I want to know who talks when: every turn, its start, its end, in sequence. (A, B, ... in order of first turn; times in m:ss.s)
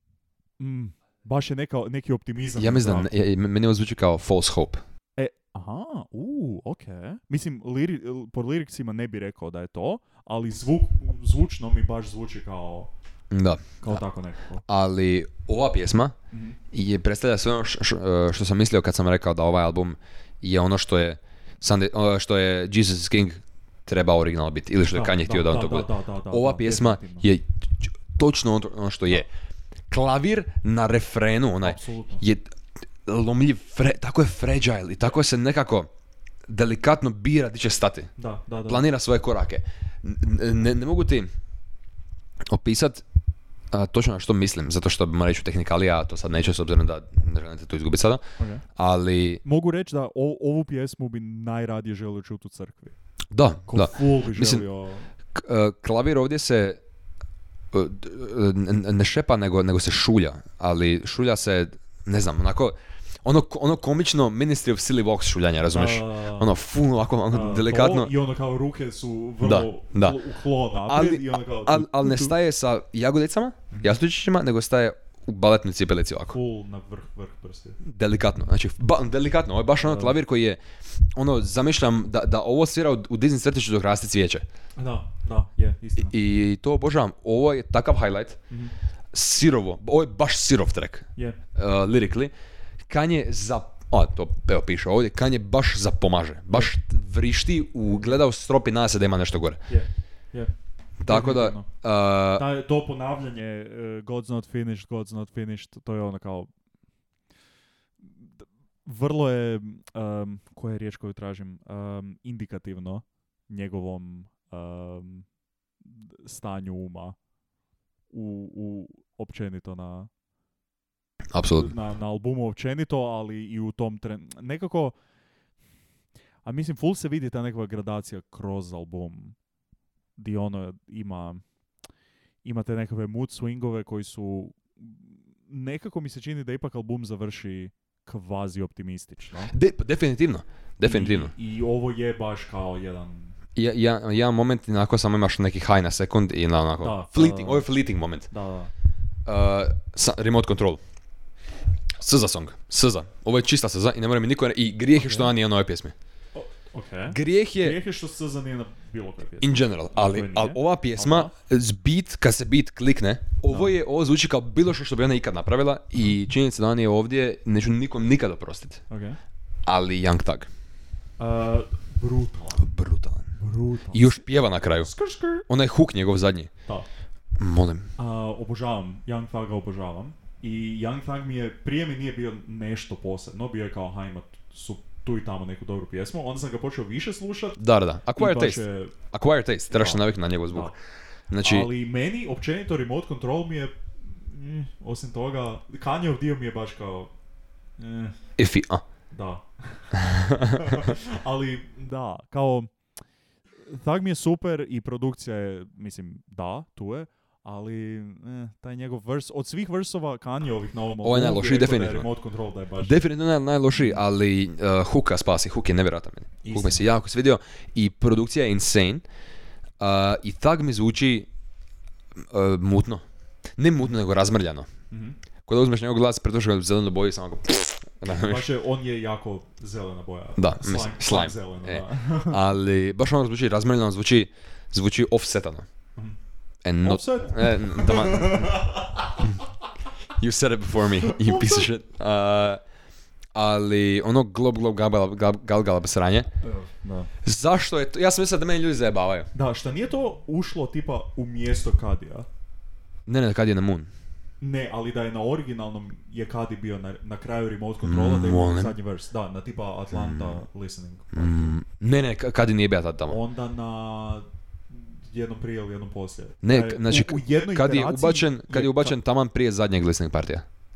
0:00.6-0:03.1 A
0:02.6-0:04.8 B
0:05.2-0:12.9 A
0:13.3-0:14.0 B
0:13.8-0:14.6 A
0:14.7-0:16.2 B
0:16.3-0:16.6 A
0:16.7-0:29.3 B
0:24.9-0:27.3 A
0:29.9-0:32.5 B
0:31.6-0:32.2 A
0:33.0-0:35.9 B
0:36.5-0:38.1 B
0:38.2-0:38.8 A
0:38.7-0:41.3 B
0:42.5-0:43.0 B
0:43.7-0:48.2 B
0:48.4-0:48.6 A
0:48.8-0:49.4 B
0:49.4-0:53.0 A
0:53.3-0:54.6 B
0:53.7-0:55.1 A
0:55.3-0:56.8 B
0:57.7-1:08.1 B
1:05.7-1:06.5 A
1:07.3-1:12.4 A
1:09.4-1:10.2 B
1:10.8-1:16.4 B
1:13.7-1:14.0 A
1:16.3-1:17.8 A
1:17.8-1:20.6 B
1:19.8-1:20.2 A
1:21.1-1:24.4 B
1:24.8-1:26.1 A
1:26.0-1:28.4 B
1:29.1-1:32.3 B
1:32.9-1:39.6 B
1:39.7-1:40.5 A
1:41.0-1:42.4 B
1:41.0-1:41.7 A
1:42.4-1:46.5 A
1:48.0-1:48.3 A
1:48.8-1:55.3 A
1:55.8-1:57.2 A
1:58.1-2:00.1 A
2:01.3-2:01.7 B
2:01.5-2:05.0 A
2:06.4-2:09.4 A
2:10.2-2:11.4 A
2:12.4-2:19.5 A
2:19.5-2:21.3 B
2:20.8-2:23.4 A
2:23.6-2:28.3 B
2:26.8-2:27.7 A
2:28.3-2:28.7 A
2:29.3-2:30.8 B
2:32.0-2:36.0 B
2:35.0-2:35.3 A
2:36.4-2:41.3 A
2:37.1-2:37.8 B
2:39.4-2:48.8 B
2:43.5-2:43.7 A
2:48.9-2:49.2 A
2:49.7-2:50.5 B
2:51.2-2:52.7 A
2:52.6-2:53.4 B
2:53.4-2:54.2 A
2:53.9-2:54.9 B
2:54.8-2:55.4 A
2:55.5-2:56.5 B
2:57.4-2:57.9 B
2:58.0-3:07.6 A
3:07.6-3:10.7 B
3:08.1-3:09.0 A
3:09.7-3:10.7 A
3:11.3-3:11.7 B
3:11.4-3:17.1 A
3:17.8-3:18.2 A
3:18.4-3:18.8 B
3:19.1-3:19.9 A
3:20.0-3:20.8 B
3:20.4-3:22.7 A
3:23.6-3:33.0 A
3:31.0-3:32.1 B
3:32.8-3:39.0 B
3:33.7-3:34.0 A
3:36.4-3:36.8 A
3:39.8-3:41.3 B
3:42.3-3:43.0 B
3:43.6-3:44.7 B
3:44.9-3:45.2 A
3:45.4-3:48.5 B
3:48.1-3:52.4 A
3:50.4-3:55.7 B
3:56.6-3:58.6 B
3:56.8-3:59.4 A
4:00.2-4:02.6 B
4:01.0-4:01.7 A
4:03.4-4:06.3 B
4:06.4-4:07.1 A
4:07.2-4:09.3 B
4:09.3-4:12.3 A
4:13.1-4:13.9 B
4:14.4-4:21.5 A
4:17.8-4:18.8 B
4:19.9-4:20.4 B
4:21.1-4:23.2 B
4:23.1-4:29.0 A
4:26.4-4:30.4 B